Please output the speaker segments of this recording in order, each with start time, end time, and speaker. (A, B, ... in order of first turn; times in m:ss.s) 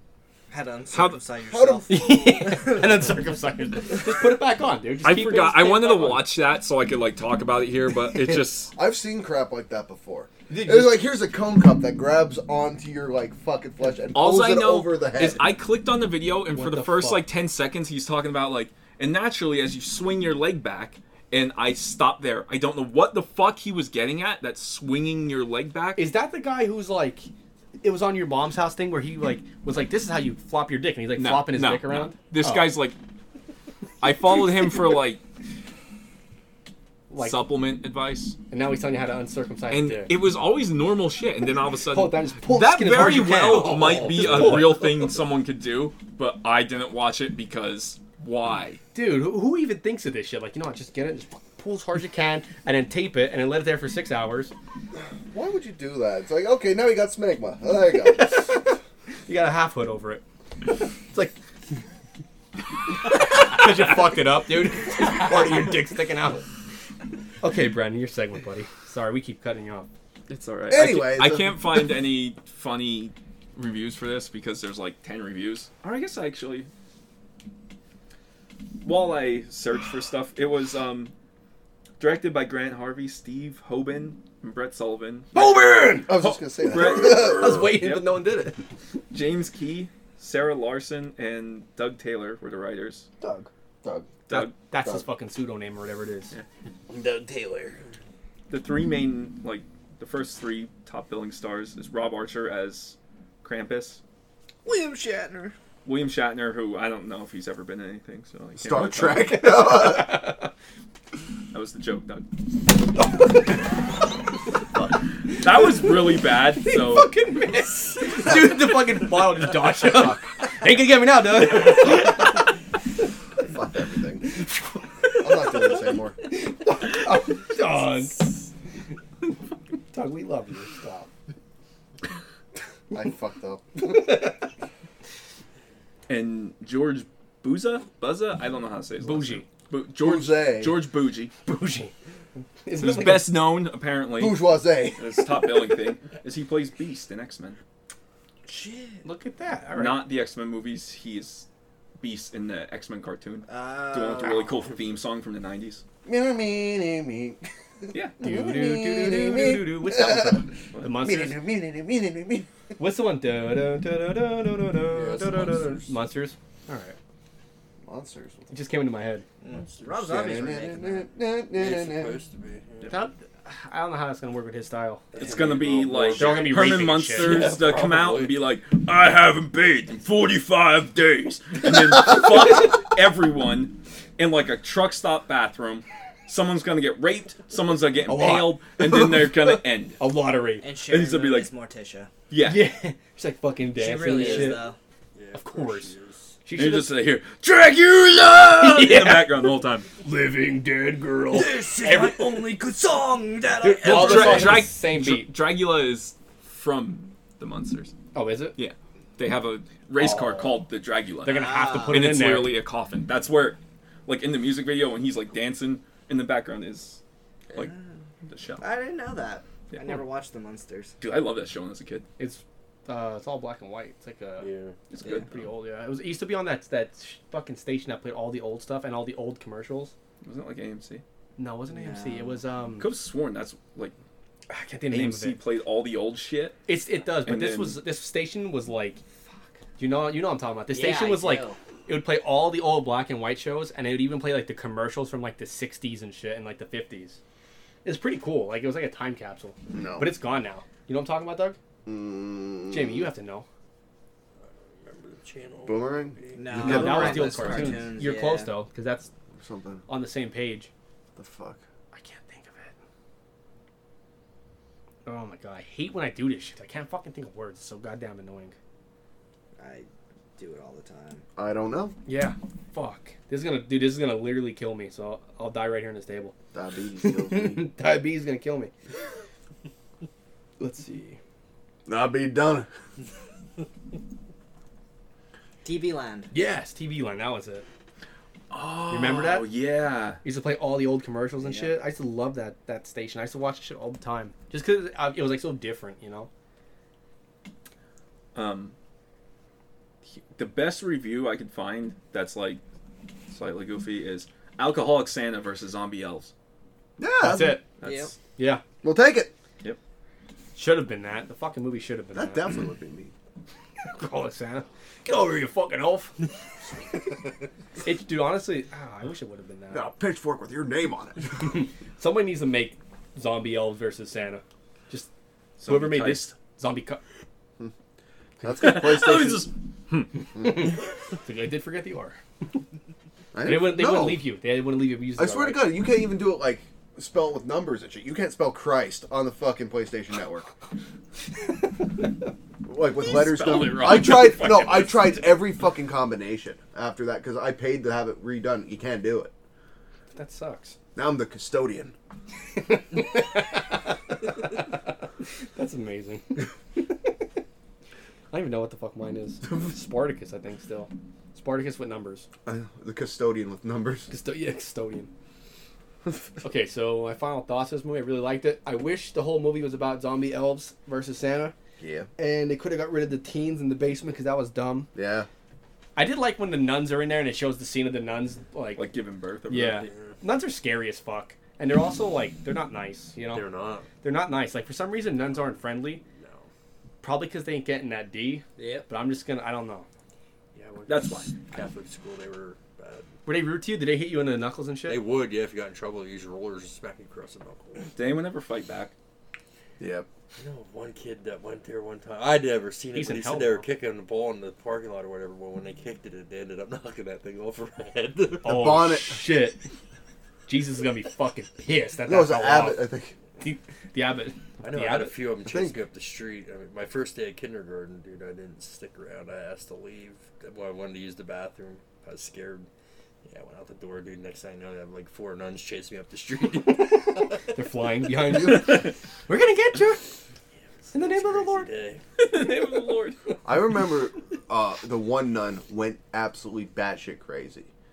0:00.5-0:02.8 A
0:00.9-0:01.2 B
0:01.5-0:02.6 C
0:01.9-0:06.4 D
0:05.0-0:08.7 B
0:08.7-0:15.5 C
0:10.5-0:11.0 D
0:14.1-0:26.1 B
0:16.5-0:17.2 D
0:26.0-0:27.3 D
0:27.8-0:32.8 D
0:31.2-0:33.0 B
0:34.0-0:35.2 B
0:37.1-0:37.4 D
0:37.2-0:38.4 B
0:38.5-0:40.2 D
0:39.7-0:48.8 B
0:41.9-0:45.0 D
0:48.9-0:54.5 D
0:55.3-0:58.5 C
0:58.0-0:58.8 D
0:59.3-1:00.2 D
1:01.1-1:01.4 D
1:02.9-1:06.5 D
1:07.4-1:09.9 D
1:10.3-1:16.7 B
1:10.7-1:11.8 C
1:18.8-1:21.1 B
1:22.0-1:28.2 B
1:25.3-1:26.2 D
1:26.0-1:27.8 C
1:26.7-1:28.6 D
1:29.1-1:33.1 B
1:33.2-1:33.5 D
1:33.8-1:34.2 C
1:34.3-1:34.6 B
1:34.3-1:36.3 D
1:36.9-1:37.8 A
1:38.5-1:44.0 B
1:44.6-1:45.6 A
1:45.8-1:49.4 B
1:48.6-1:50.3 C
1:49.3-1:50.5 D
1:51.5-1:52.3 B
1:53.0-1:53.6 D
1:54.8-2:02.5 D
1:55.4-1:57.1 B
1:59.8-2:00.3 C
2:03.4-2:04.3 C
2:05.0-2:08.5 D
2:05.2-2:06.2 C
2:09.9-2:11.1 D
2:12.9-2:14.3 C
2:13.9-2:14.3 D
2:16.1-2:21.3 B
2:19.0-2:19.5 D
2:20.0-2:20.8 C
2:21.5-2:23.4 D
2:22.8-2:27.6 B
2:24.2-2:25.3 C
2:28.5-2:29.0 A
2:29.0-2:30.1 D
2:29.8-2:31.5 B
2:32.0-2:35.8 B
2:33.5-2:34.6 A
2:36.0-2:42.5 C
2:37.9-2:38.2 B
2:38.2-2:41.4 D
2:42.8-2:47.0 D
2:44.9-2:46.0 E
2:47.8-2:48.5 C
2:48.5-2:49.2 D
2:49.4-2:51.1 A
2:49.5-2:50.3 E
2:50.0-2:52.2 C
2:51.5-2:53.0 E
2:52.9-2:55.0 D
2:55.1-2:58.4 E
2:55.2-3:10.0 B
2:56.2-2:57.6 D
3:08.1-3:10.6 D
3:10.6-3:12.1 A
3:10.9-3:11.5 B
3:12.3-3:12.7 B
3:12.4-3:14.7 D
3:13.8-3:14.8 A
3:14.1-3:14.6 E
3:15.2-3:16.4 E
3:15.4-3:15.9 D
3:16.4-3:17.0 D
3:16.6-3:19.9 B
3:18.5-3:22.6 D
3:21.3-3:24.6 A
3:23.6-3:25.4 D
3:23.8-3:27.9 B
3:28.1-3:28.6 D
3:28.6-3:37.0 B
3:31.2-3:32.6 D
3:31.3-3:32.1 A
3:37.5-3:37.9 A
3:38.3-3:38.6 B
3:38.6-3:41.0 A
3:41.0-3:42.1 B
3:42.2-3:44.5 D
3:44.4-3:44.8 E
3:44.9-3:45.5 B
3:45.1-3:49.9 D
3:50.2-3:51.0 B
3:51.4-3:52.9 D
3:51.7-3:52.4 A
3:52.8-3:54.0 B
3:54.5-3:55.4 D
3:54.9-3:56.6 B
3:56.7-3:59.0 D
3:57.2-3:57.8 B
3:59.8-4:07.2 D
4:00.7-4:01.6 A
4:07.8-4:11.6 D
4:09.7-4:10.2 C
4:11.9-4:13.1 C
4:12.7-4:13.5 D
4:14.4-4:16.6 E
4:15.7-4:17.8 C
4:16.4-4:18.6 A
4:16.6-4:19.1 D
4:19.4-4:19.9 C
4:19.9-4:20.7 D
4:21.2-4:21.6 C
4:21.9-4:22.8 D
4:25.0-4:28.6 D
4:29.6-4:31.2 A
4:31.4-4:32.0 C
4:32.1-4:36.3 D
4:36.5-4:37.7 C
4:37.0-4:38.7 D
4:40.6-4:41.2 D
4:41.9-4:42.7 C
4:45.6-4:46.3 A
4:46.3-4:47.6 D
4:48.5-4:50.2 B
4:48.9-4:49.5 D
4:50.2-4:56.3 D
4:51.4-4:51.7 A
4:58.3-4:58.8 B
5:00.3-5:02.6 B
5:03.3-5:06.3 B
5:07.0-5:07.6 C
5:07.2-5:07.7 D
5:07.8-5:08.2 B
5:07.8-5:08.1 A
5:08.4-5:08.6 D
5:08.8-5:09.3 C
5:10.6-5:12.5 D
5:12.2-5:13.1 C
5:13.9-5:16.3 D
5:17.8-5:19.9 D
5:19.7-5:21.6 C
5:21.4-5:25.1 D
5:25.6-5:26.3 B
5:25.6-5:27.0 D
5:28.4-5:29.5 C
5:28.6-5:30.1 B
5:30.4-5:32.2 D
5:33.3-5:34.3 C
5:33.4-5:35.8 D
5:35.2-5:40.5 C
5:42.6-5:49.3 C
5:43.0-5:45.3 B
5:50.1-5:50.8 D
5:51.0-5:51.9 C
5:52.6-5:54.0 D
5:55.6-5:57.2 D
5:58.3-6:02.3 D
6:02.4-6:04.1 C
6:04.1-6:05.1 D
6:06.4-6:11.6 D
6:11.8-6:12.1 C
6:12.2-6:14.9 D
6:14.9-6:15.3 C
6:16.0-6:18.9 D
6:18.8-6:19.9 B
6:19.5-6:26.0 D
6:19.8-6:20.2 E
6:23.2-6:23.9 E
6:26.2-6:26.5 E
6:27.0-6:29.9 D
6:28.6-6:28.9 A
6:30.6-6:33.1 E
6:30.9-6:31.3 B
6:33.3-6:35.0 D
6:34.9-6:37.9 E
6:37.9-6:38.9 B
6:39.8-6:40.1 C
6:40.4-6:48.7 E
6:42.9-6:43.7 D
6:48.4-6:49.6 D
6:48.4-6:49.2 C
6:50.5-6:55.2 D
6:52.0-6:53.2 C
6:54.6-7:02.7 E
6:55.4-6:55.8 C
7:03.2-7:07.4 E
7:07.1-7:10.1 D
7:10.7-7:12.0 E
7:10.9-7:11.7 D
7:12.2-7:13.2 B
7:13.4-7:17.7 C